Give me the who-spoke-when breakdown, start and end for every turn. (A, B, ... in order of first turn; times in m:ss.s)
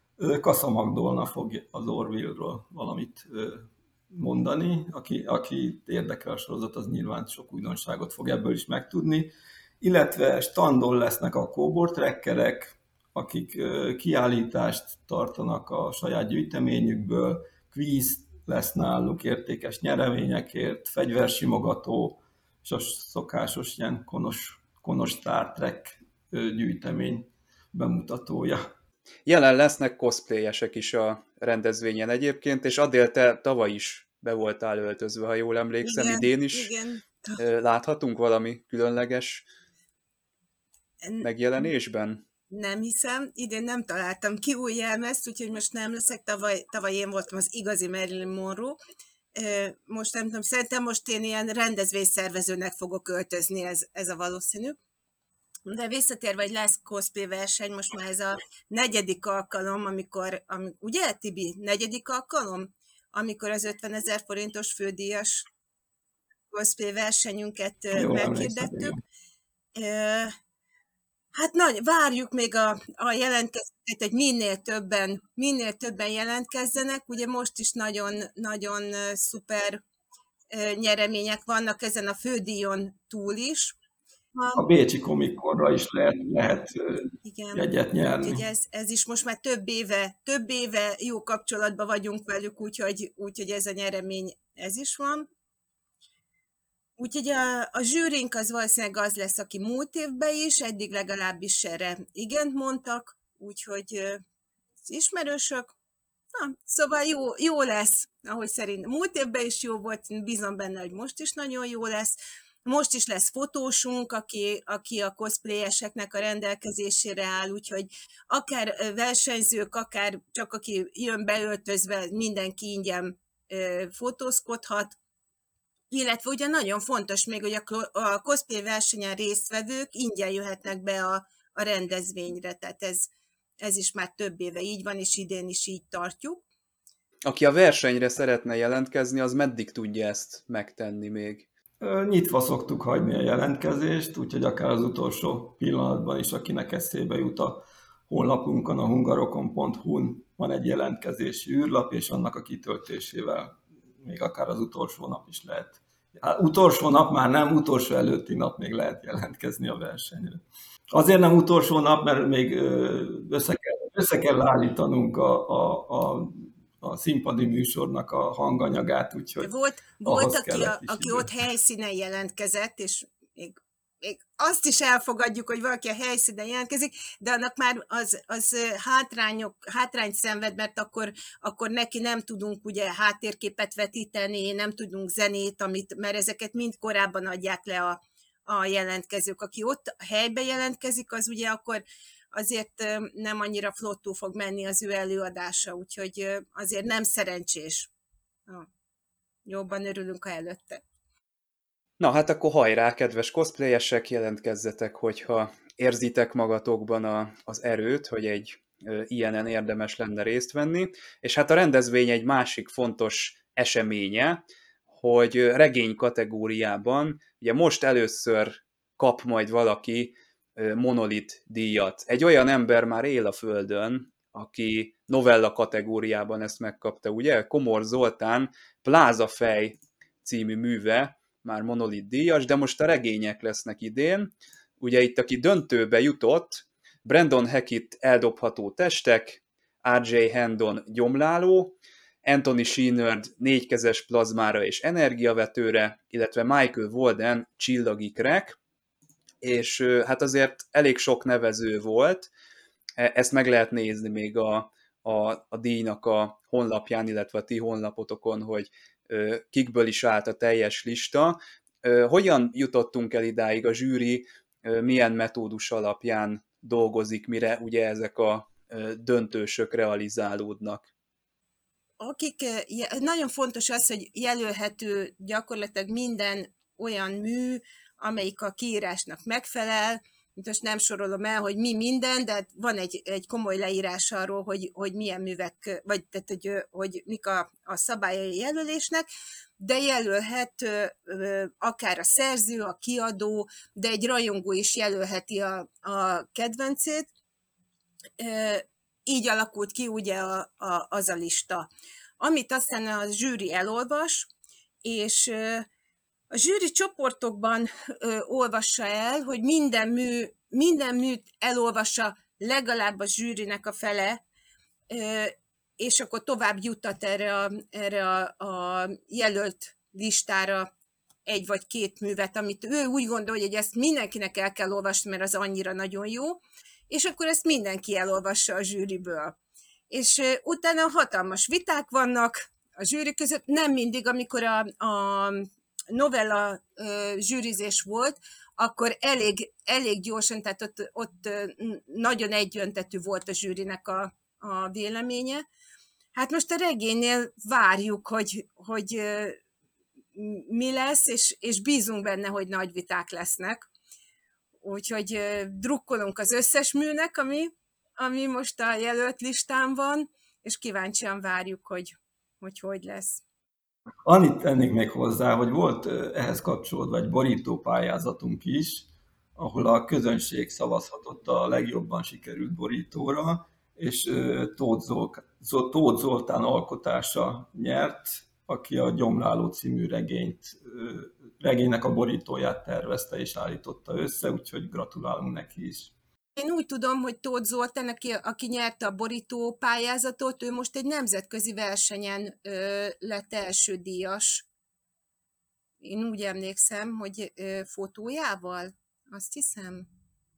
0:00.2-0:28.7 A
0:29.3-0:36.7 B
0:35.8-0:37.4 C
0:37.4-0:39.4 B
0:41.0-0:41.7 C
0:41.2-0:42.2 B
0:42.5-0:48.8 C
0:49.3-0:54.8 C
0:55.7-1:05.5 C
1:06.5-1:08.9 C
1:07.9-1:09.0 A
1:09.8-1:10.3 C
1:11.4-1:19.8 C
1:20.5-1:23.8 C
1:24.3-1:24.6 C
1:24.5-1:28.4 A
1:27.2-1:35.3 C
1:37.0-1:44.2 C
1:44.8-1:45.7 C
1:46.3-2:05.0 C
2:05.9-2:16.4 C
2:17.2-2:21.5 B
2:21.8-2:49.5 A
2:49.4-3:17.9 C
2:50.0-2:51.3 A
3:19.5-3:20.8 C
3:22.0-4:08.6 B
4:09.4-4:12.3 B
4:13.0-4:30.9 B
4:32.0-4:49.0 C
4:49.6-4:57.1 C
4:58.2-5:01.7 C
5:02.2-5:04.3 C
5:04.8-5:05.7 C
5:06.3-5:14.2 C
5:14.9-5:20.7 C
5:21.3-5:29.4 C
5:29.9-5:45.5 C
5:46.1-5:49.4 C
5:50.1-5:53.7 C
5:54.6-6:03.2 C
6:04.0-6:25.9 A
6:26.4-6:34.4 C
6:35.8-6:39.9 C